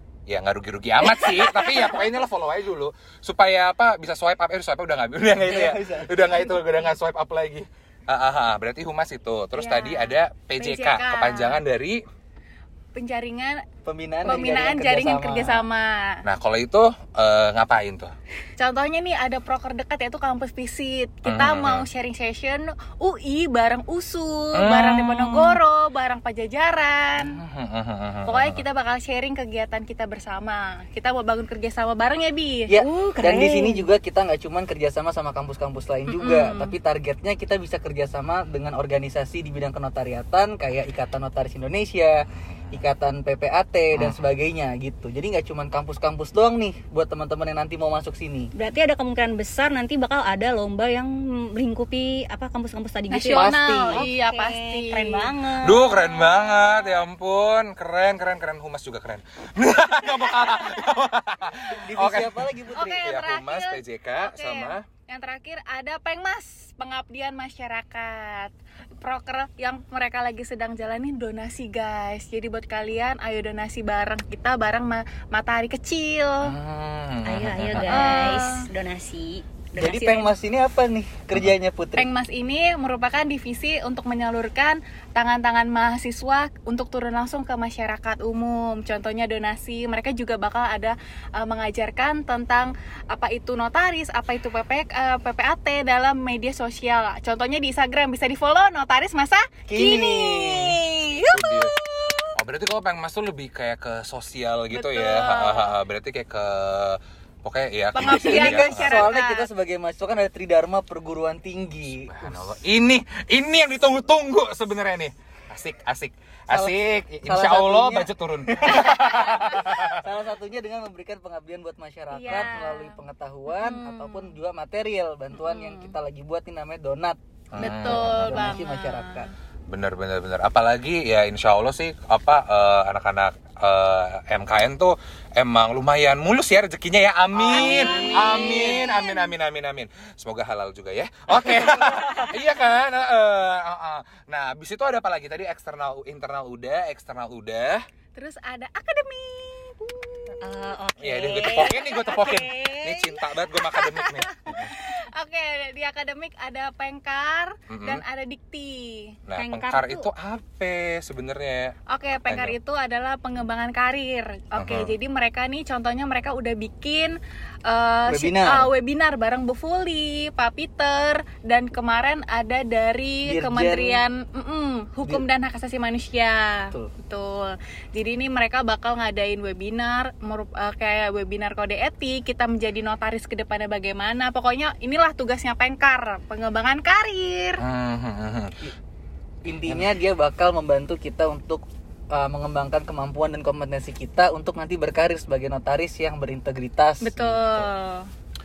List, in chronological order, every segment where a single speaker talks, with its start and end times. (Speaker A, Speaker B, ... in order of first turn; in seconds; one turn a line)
Speaker A: 0.3-12.0
Speaker B: 1.2-2.0
Speaker C: 5.3-6.2
Speaker D: 6.4-6.9
Speaker D: 9.5-11.6
Speaker D: 12.9-13.6
Speaker C: 13.8-15.7
Speaker D: 14.2-16.2
Speaker A: 16.2-18.1
Speaker D: 18.6-27.4
Speaker A: 21.2-21.9
Speaker A: 24.5-25.6
Speaker A: 27.2-28.6
Speaker D: 28.2-32.7
Speaker C: 32.7-48.5
Speaker B: 32.7-33.9
Speaker D: 36.1-36.7
Speaker A: 42.3-42.8
Speaker A: 43.9-44.2
Speaker B: 48.5-56.0
Speaker D: 53.1-55.3
Speaker C: 53.3-54.1
Speaker A: 55.6-64.8
Speaker D: 55.9-57.0
Speaker D: 60.4-60.8
Speaker C: 61.7-63.1
Speaker D: 62.7-76.5
Speaker A: 76.4-78.4
Speaker B: 77.2-80.3
Speaker D: 77.8-78.7
Speaker C: 79.8-82.1
Speaker D: 82.0-102.3
Speaker C: 99.7-100.8
Speaker A: 101.3-101.8
Speaker A: 102.3-109.1
Speaker D: 104.7-105.7
Speaker D: 107.9-109.5
Speaker C: 108.0-112.5
Speaker A: 112.0-120.0
Speaker C: 116.5-129.3
Speaker D: 119.0-119.7
Speaker D: 122.1-124.3
Speaker D: 125.4-125.9
Speaker A: 127.5-128.5
Speaker D: 127.6-129.3
Speaker A: 129.7-147.8
Speaker C: 137.4-138.1
Speaker D: 137.4-139.3
Speaker B: 137.7-138.6
Speaker D: 148.1-150.6
Speaker B: 150.4-153.2
Speaker A: 151.0-154.8
Speaker D: 153.5-159.2
Speaker A: 157.7-158.0
Speaker A: 159.2-162.5
Speaker B: 159.3-160.1
Speaker D: 161.9-187.6
Speaker A: 164.6-164.9
Speaker C: 168.1-168.7
Speaker C: 173.2-174.0
Speaker A: 187.6-188.6
Speaker C: 189.4-197.2
Speaker D: 197.0-198.1
Speaker A: 197.2-197.7